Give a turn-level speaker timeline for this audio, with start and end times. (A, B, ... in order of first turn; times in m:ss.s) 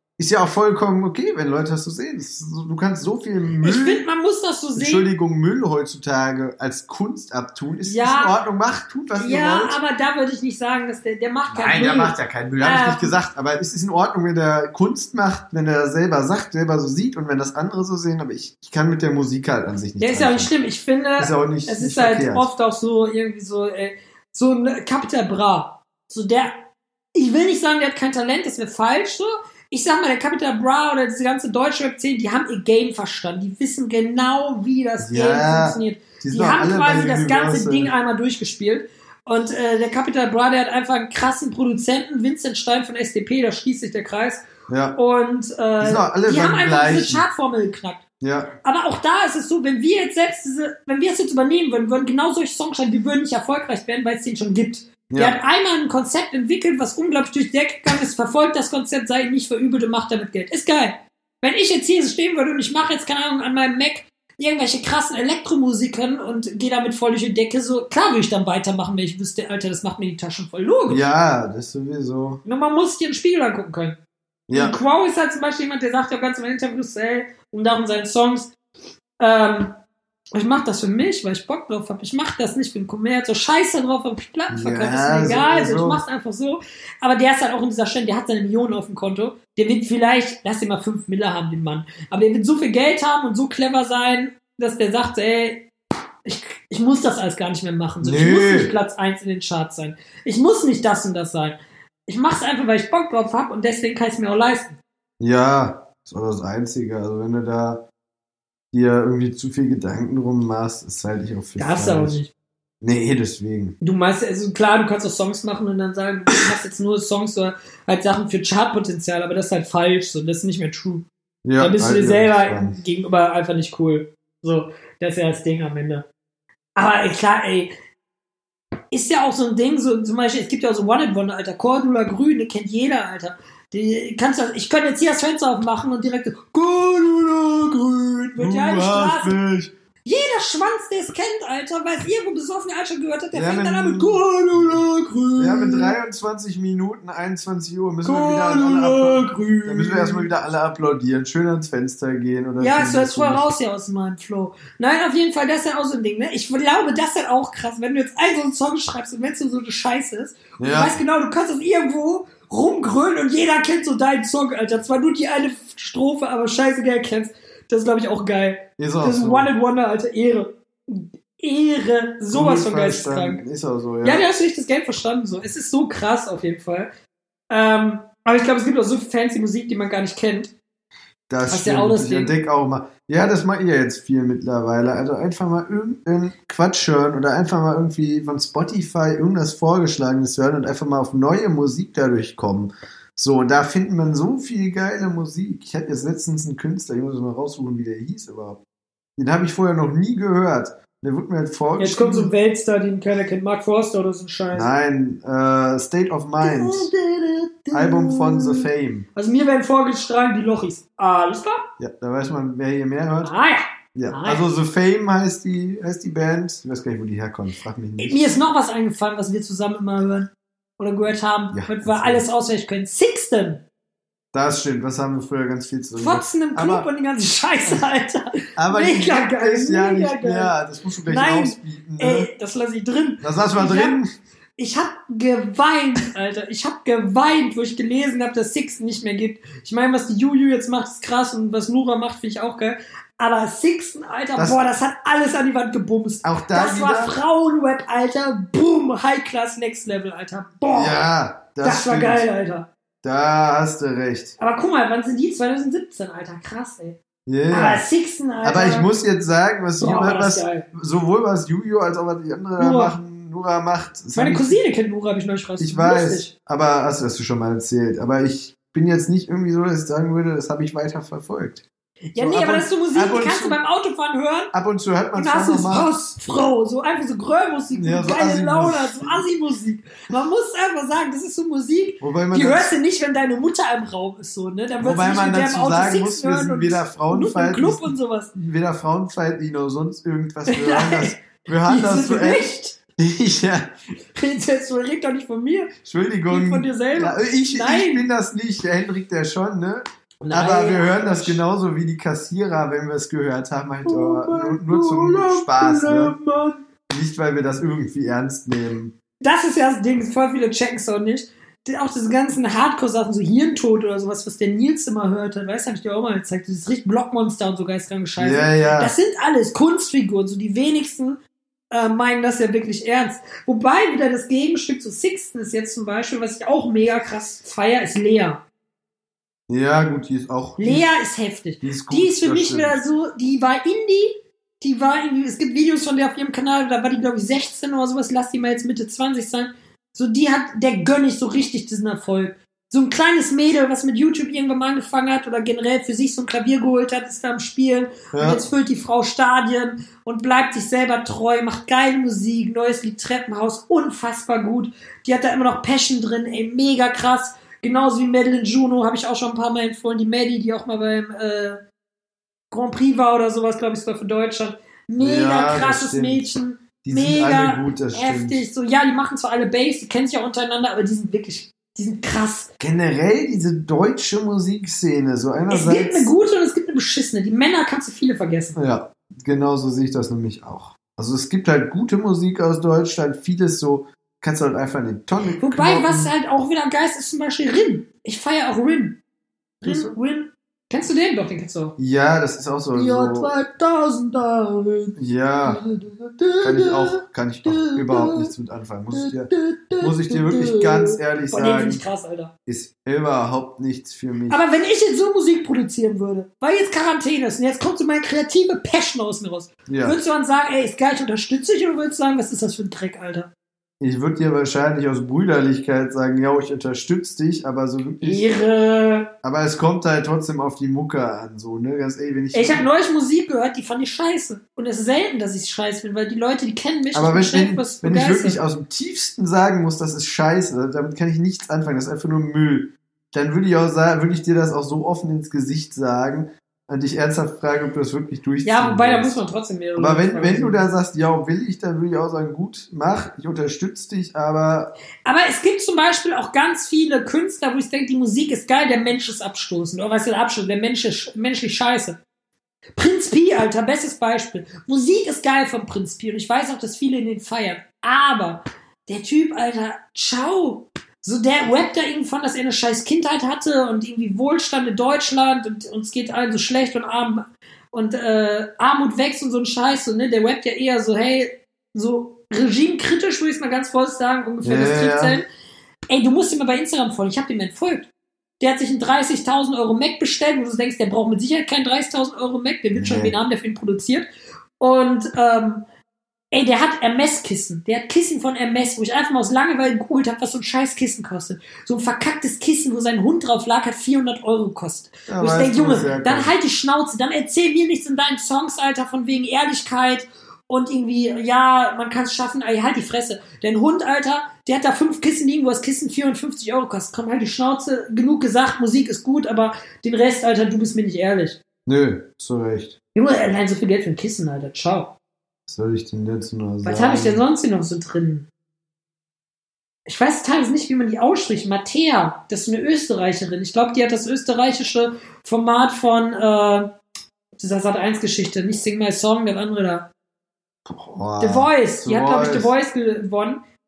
0:00.2-0:04.0 A
0:03.6-0:05.1 B
0:04.8-0:09.8 A
0:07.8-0:08.4 B
0:09.2-0:13.2 B
0:11.5-0:20.5 A
0:20.0-0:26.6 B
0:21.2-0:22.5 A
0:27.1-0:48.0 B
0:35.0-0:37.9 A
0:44.7-0:45.0 A
0:45.8-0:47.3 A
0:48.2-0:48.5 A
0:48.6-1:11.0 B
0:55.1-0:55.4 A
1:10.9-1:12.4 A
1:12.4-1:14.0 B
1:14.5-1:14.8 A
1:14.5-1:18.5 B
1:19.2-1:19.7 B
1:20.3-1:35.7 B
1:24.5-1:26.0 A
1:36.2-1:44.8 B
1:38.0-1:38.7 A
1:45.2-1:47.8 A
1:48.7-1:52.2 A
1:51.6-1:52.3 B
1:52.8-1:53.8 A
1:53.8-2:01.1 B
2:01.4-2:02.8 A
2:01.6-2:06.1 B
2:06.8-2:07.7 B
2:08.9-2:19.4 B
2:18.4-2:19.7 A
2:20.0-2:26.0 B
2:23.3-2:24.8 A
2:25.4-2:33.5 A
2:28.0-2:30.3 B
2:32.6-2:53.4 B
2:40.6-2:41.0 A
2:48.8-2:49.5 A
2:52.3-2:54.2 A
2:54.0-2:56.9 B
2:57.5-3:00.5 B
3:01.3-3:18.6 A
3:01.4-3:02.3 B
3:19.2-3:22.3 A
3:21.8-3:24.7 B
3:24.5-3:26.9 A
3:26.4-3:31.6 B
3:27.7-3:29.1 A
3:31.8-3:33.3 A
3:33.2-3:34.5 B
3:33.9-3:38.3 A
3:38.0-3:43.6 B
3:41.5-3:42.2 A
3:44.3-3:46.9 A
3:46.0-3:50.5 B
3:48.6-3:52.3 A
3:51.1-3:54.0 B
3:53.2-3:54.1 A
3:54.6-4:11.0 B
4:04.4-4:04.6 A
4:06.2-4:07.2 A
4:10.7-4:12.3 A
4:11.6-4:12.7 B
4:13.0-4:14.3 A
4:14.4-4:17.0 B
4:17.2-4:17.8 A
4:17.5-4:18.9 B
4:18.4-4:24.6 A
4:19.8-4:20.6 B
4:22.6-4:23.0 B
4:24.1-4:26.3 B
4:25.6-4:31.6 A
4:32.1-4:34.5 B
4:32.2-4:33.6 A
4:34.5-4:35.9 A
4:35.1-4:48.3 B
4:37.7-4:39.3 A
4:42.0-4:42.7 A
4:44.8-4:53.7 A
4:50.4-4:52.8 B
4:54.1-4:55.7 B
4:55.8-5:06.2 A
4:56.3-4:58.1 B
5:00.2-5:01.4 B
5:03.8-5:06.6 B
5:06.9-5:08.9 A
5:09.2-5:28.4 B
5:18.2-5:18.9 A
5:29.5-5:30.9 A
5:30.6-6:01.6 B
5:31.6-5:32.8 A
5:48.1-5:48.4 A
6:02.5-6:12.5 B
6:05.0-6:06.3 A
6:06.8-6:08.4 A
6:12.6-6:16.1 A
6:15.5-6:18.6 B
6:18.5-6:26.1 A
6:25.4-6:29.0 B
6:29.6-6:30.0 A
6:29.6-6:31.8 B
6:31.8-6:33.3 A
6:32.7-6:38.3 B
6:35.0-6:35.6 A
6:36.4-6:41.8 A
6:38.9-6:42.3 B
6:42.4-6:44.4 A
6:44.3-6:53.3 B
6:49.7-6:50.0 A
6:53.8-6:58.3 A
6:58.0-6:59.1 B
6:59.2-7:02.7 A
7:02.3-7:08.4 B
7:06.9-7:19.2 A
7:18.4-7:20.6 B
7:19.8-7:24.7 A
7:25.0-7:32.0 B
7:32.8-7:55.3 B
7:54.4-7:55.2 A
7:55.9-7:57.9 B
7:58.4-8:04.1 B
8:02.7-8:03.1 A
8:04.6-8:05.6 B
8:06.3-8:31.4 B
8:15.1-8:16.3 A
8:31.6-8:32.7 A
8:32.9-8:34.9 B
8:35.5-8:37.2 A
8:36.6-8:38.3 B
8:39.8-8:46.7 B
8:47.4-8:49.9 B
8:50.6-8:52.5 A
8:51.2-8:53.4 B